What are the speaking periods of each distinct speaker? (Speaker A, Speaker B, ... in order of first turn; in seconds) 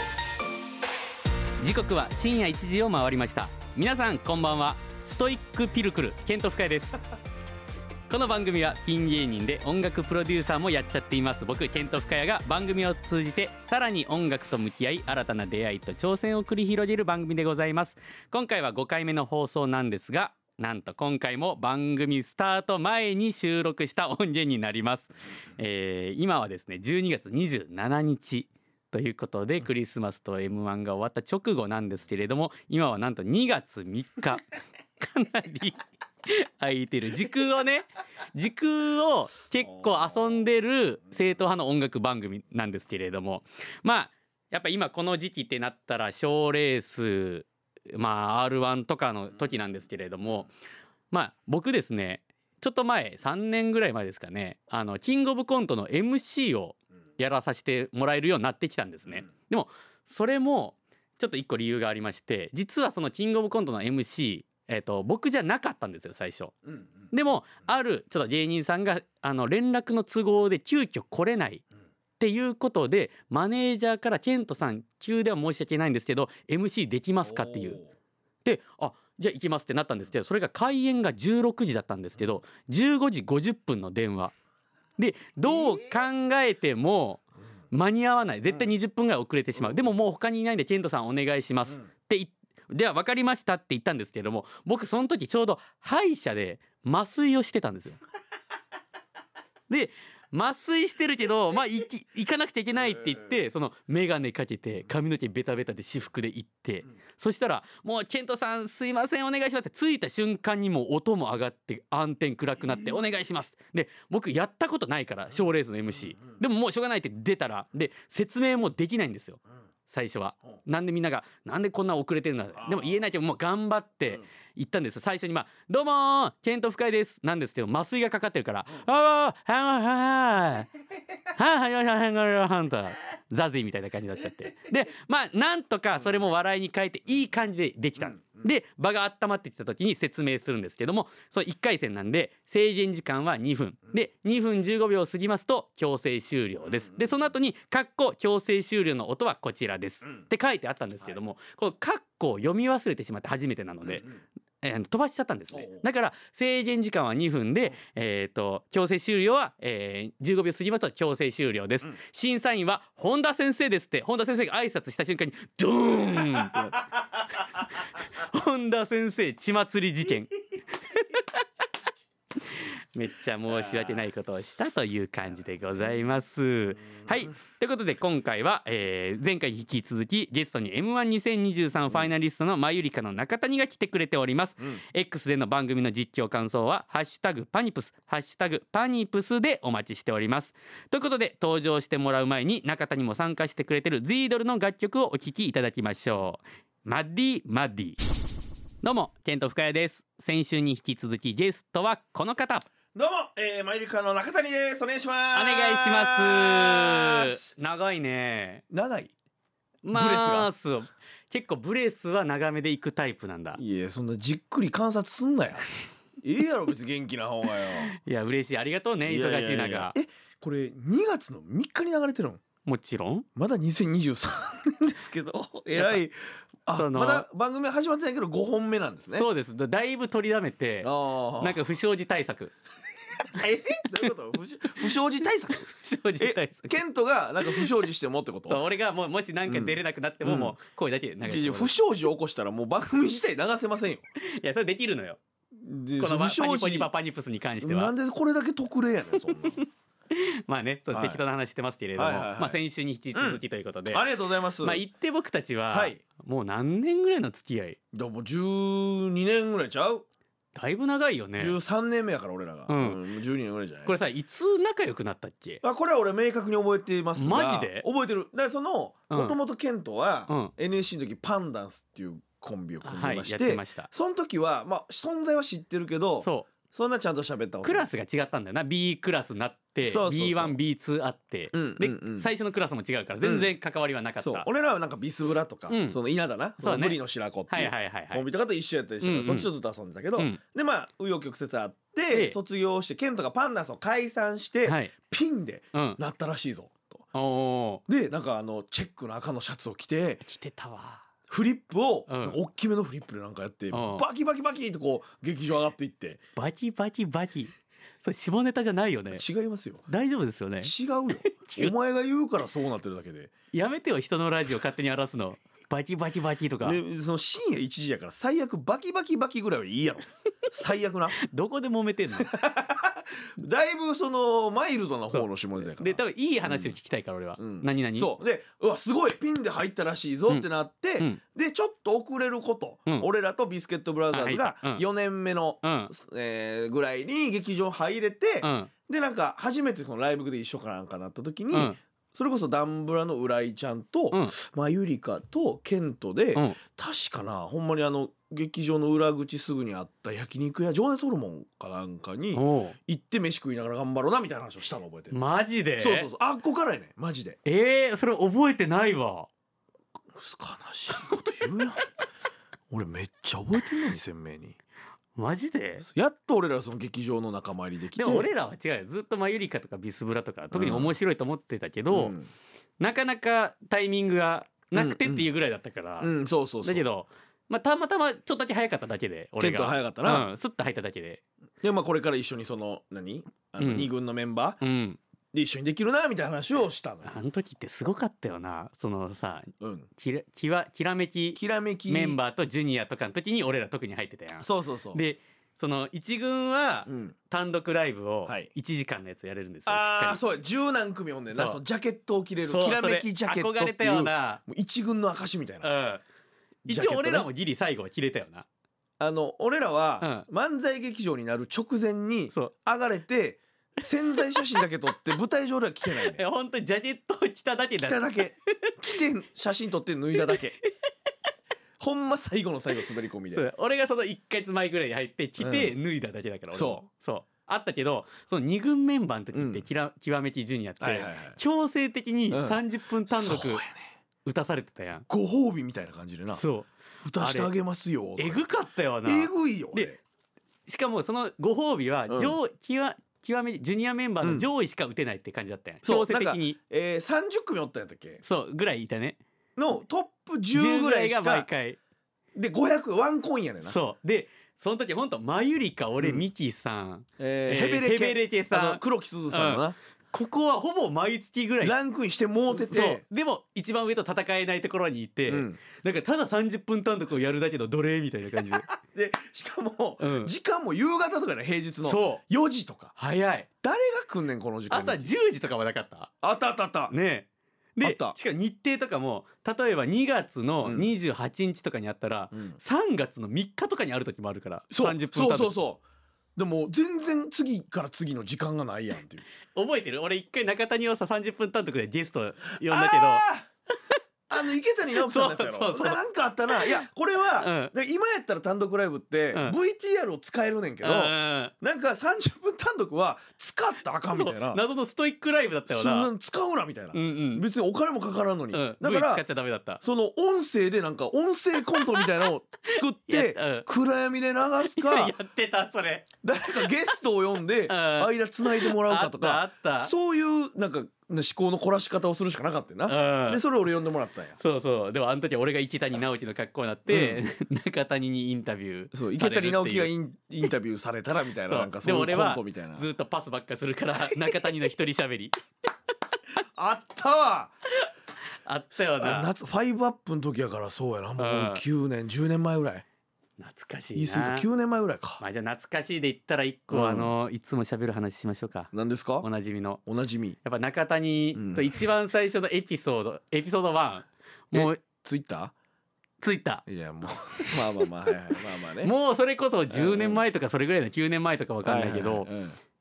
Speaker A: 1.6-7.0, 8.1-34.5, 35.0-50.5, 51.1-66.5, 67.1-71.6, 72.2-77.8, 78.5-84.3, 85.0-98.0, 99.7-130.7, 131.3-154.1, 154.6-170.3, 170.9-171.4, 172.4-198.0, 198.8-202.7, 205.3-208.6, 209.8-213.6, 217.9-220.0, 222.7-223.3, 225.8-226.0, 226.7-227.2, 229.1-232.5, 235.7-236.8, 237.4-237.7, 238.5-241.8, 244.2-245.2, 246.0-247.9, 249.6-254.1, 254.6-257.8, 260.6-261.6, 262.7-263.0, 263.9-265.6, 267.2-267.9, 269.1-269.4, 270.3-270.5, 272.8-273.9, 276.2-276.5, 277.6-284.5, 285.7-286.0, 286.6-287.0, 287.5-288.2, 289.0-289.5, 292.1-292.4, 294.6-294.9, 297.1-297.8, 300.2-301.1, 302.1-302.4, 303.7-304.0, 306.4-309.2, 309.9-310.7, 311.3-311.7, 313.5-316.8, 321.2-322.3, 325.8-328.1, 334.1-334.8, 335.6-335.9, 338.4-338.7, 341.5-341.8, 352.3-352.8, 355.1-356.1, 357.4-359.3, 365.2-365.9, 368.0-372.1, 372.8-376.1, 376.6-381.2, 383.6-383.9, 384.6-385.0, 387.1-400.2, 401.3-401.6, 402.4-404.4, 405.6-406.0, 406.7-408.5, 410.0-410.3, 415.9-418.7, 423.3-433.6, 434.2-435.1, 436.3-437.5, 438.2-440.0, 440.7-446.6, 448.2-449.2, 450.5-451.8, 453.6-461.8, 462.5-468.7, 470.0-470.3, 471.8-472.2, 473.0-473.5, 474.7-476.1, 476.9-485.5, 489.5-493.2, 495.0-496.0, 496.5-496.9, 497.4-497.7, 500.8-501.5, 504.1-506.1, 506.9-507.4, 508.5-509.8, 511.8-512.0, 512.7-513.7, 514.7-516.1, 517.7-519.9, 522.9-523.4, 524.4-529.9, 531.5-535.3, 538.5-539.3, 541.2-541.6, 543.4-544.5, 545.2-549.8, 550.4-554.8, 556.2-556.7, 557.4-557.9, 558.8-562.3
Speaker B: 39.6-40.4, 77.2-77.9, 112.6-113.2, 122.6-123.0, 146.6-147.2, 153.8-154.2, 155.5-155.9, 166.4-166.7, 173.5-174.0, 202.9-207.4, 208.7-209.1, 209.9-210.5, 213.6-215.7, 216.2-217.9, 219.1-222.4, 223.3-226.2, 226.7-229.3, 230.8-231.6, 233.2-235.7, 236.2-238.6, 239.5-240.6, 241.2-244.1, 245.6-246.9, 247.6-249.6, 250.9-251.2, 252.0-252.6, 253.1-254.8, 255.7-256.0, 257.9-260.1, 261.4-263.9, 265.6-277.9, 279.8-280.6, 281.5-282.3, 283.2-283.5, 284.2-297.1, 297.9-300.2, 301.3-306.2, 309.1-309.9, 310.6-313.3, 316.6-321.2, 322.2-326.8, 327.4-355.2, 355.8-357.4, 360.1-361.9, 362.7-364.6, 365.9-368.3, 370.5-371.0, 371.9-372.3, 374.7-375.3, 376.0-376.9, 379.4-380.3, 381.6-384.6, 385.3-387.1, 389.6-389.9, 391.4-392.2, 394.4-395.0, 396.9-397.2, 399.7-405.7, 406.7-407.3, 409.0-416.2, 417.8-420.6, 421.8-423.5, 425.4-425.8, 426.5-426.9, 429.3-429.6, 430.8-431.4, 432.3-433.9, 435.1-436.4, 437.0-438.5, 439.0-440.0, 442.1-442.4, 445.8-448.2, 449.6-451.5, 452.4-453.8, 457.2-459.8, 461.6-463.0, 465.3-465.6, 468.4-472.9, 473.6-475.1, 476.2-476.9, 477.8-478.2, 480.6-480.9, 482.3-482.6, 484.7-485.8, 486.4-489.2, 492.7-493.5, 494.3-504.6, 505.7-509.2, 509.8-515.1, 516.2-524.4, 526.9-527.2, 528.9-532.9, 534.1-534.4, 536.5-537.5, 538.7-542.8, 544.0-545.2, 546.7-547.1, 548.7-549.3, 549.9-550.4, 551.4-551.8, 554.5-555.5, 556.7-558.9, 559.7-560.2, 561.6-562.6